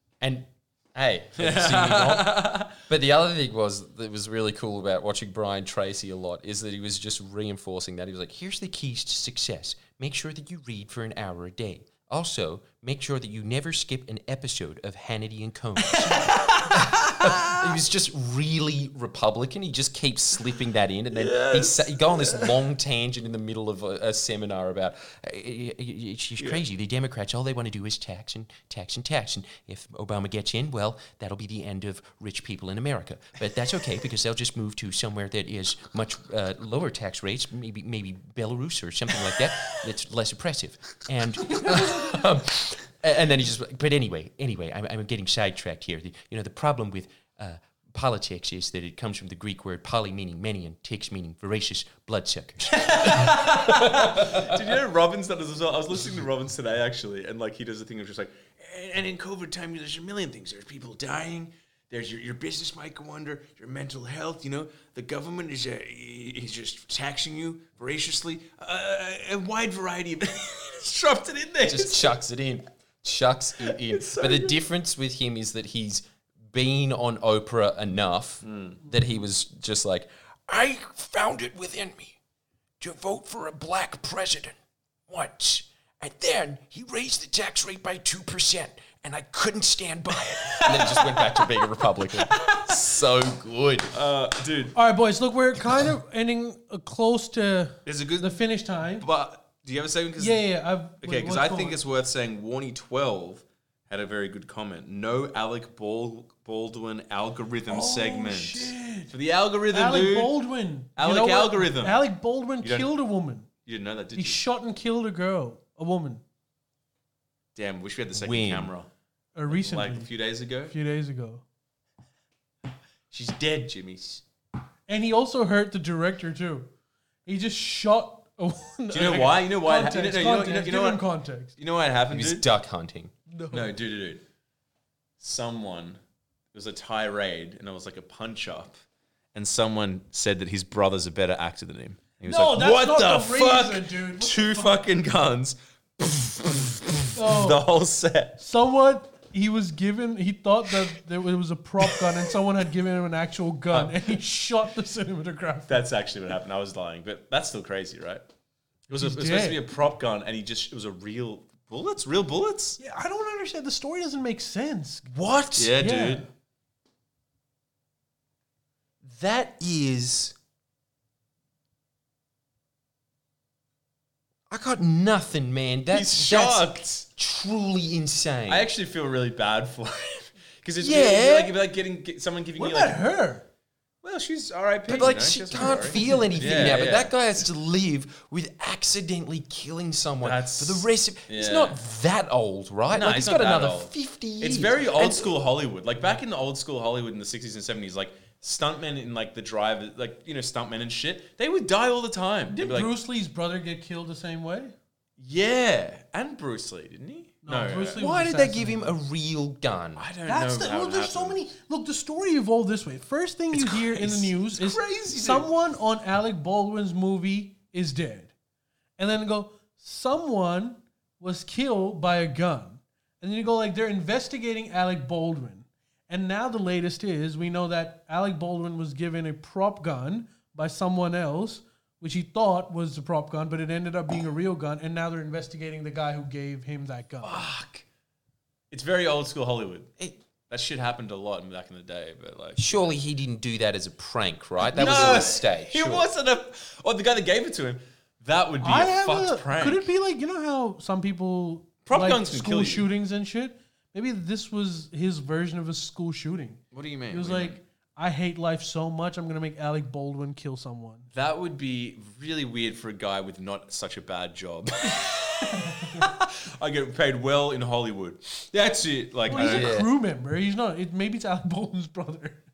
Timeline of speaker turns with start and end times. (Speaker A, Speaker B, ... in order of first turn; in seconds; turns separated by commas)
Speaker A: 0.2-54.8, Speaker B: 1.4-2.8, Speaker B: 15.8-17.8, Speaker B: 21.1-22.7, Speaker B: 52.7-72.2, Speaker A: 71.7-82.2, Speaker B: 73.6-74.6, Speaker B: 78.4-78.8, Speaker A: 82.8-84.6, Speaker A: 85.1-93.9, Speaker B: 90.5-91.4, Speaker B: 92.2-92.8, Speaker B: 93.9-94.8, Speaker C: 94.8-99.0, Speaker B: 97.9-98.4, Speaker B: 99.0-100.5, Speaker C: 100.2-101.8, Speaker B: 101.0-110.4, Speaker C: 107.7-109.1, Speaker C: 109.7-113.5, Speaker B: 111.0-112.0, Speaker B: 112.6-112.9, Speaker B: 113.7-114.4, Speaker C: 114.1-116.2, Speaker B: 117.5-118.9, Speaker A: 118.1-118.7, Speaker C: 119.3-120.1, Speaker B: 119.5-120.7, Speaker C: 120.7-121.4, Speaker B: 123.1-124.2, Speaker C: 124.9-126.7, Speaker C: 127.3-131.5, Speaker B: 128.9-132.5, Speaker A: 132.1-133.1, Speaker C: 133.3-133.7, Speaker B: 133.5-134.2, Speaker B: 135.2-136.0, Speaker B: 136.5-138.8, Speaker B: 139.3-148.4, Speaker C: 142.2-144.8, Speaker C: 147.1-147.7, Speaker C: 148.4-155.8, Speaker B: 151.8-152.1, Speaker B: 153.7-154.2, Speaker B: 155.7-158.2, Speaker B: 158.9-162.8, Speaker C: 158.9-159.6, Speaker C: 162.8-165.1, Speaker A: 165.1-165.8, Speaker B: 165.5-166.3, Speaker C: 165.8-166.3, Speaker A: 169.0-170.3, Speaker A: 174.5-178.7, Speaker B: 175.9-177.1, Speaker B: 178.5-183.0, Speaker A: 180.8-181.6, Speaker C: 182.6-183.5, Speaker B: 184.0-187.1, Speaker A: 184.9-195.4, Speaker C: 185.6-186.7, Speaker B: 190.2-191.8, Speaker B: 192.9-202.9, Speaker C: 202.5-204.8, Speaker B: 205.2-208.1, Speaker C: 207.4-209.0, Speaker A: 208.0-210.0, Speaker B: 210.0-211.4, Speaker C: 210.3-218.3, Speaker B: 213.5-215.5, Speaker C: 219.0-237.5, Speaker B: 237.2-237.8, Speaker B: 238.7-242.8, Speaker A: 242.6-246.1, Speaker B: 244.6-249.9, Speaker C: 248.6-261.1, Speaker B: 251.9-252.9, Speaker B: 256.7-257.6, Speaker B: 261.1-269.8, Speaker C: 265.4-266.1, Speaker C: 269.3-272.4, Speaker A: 269.3-269.9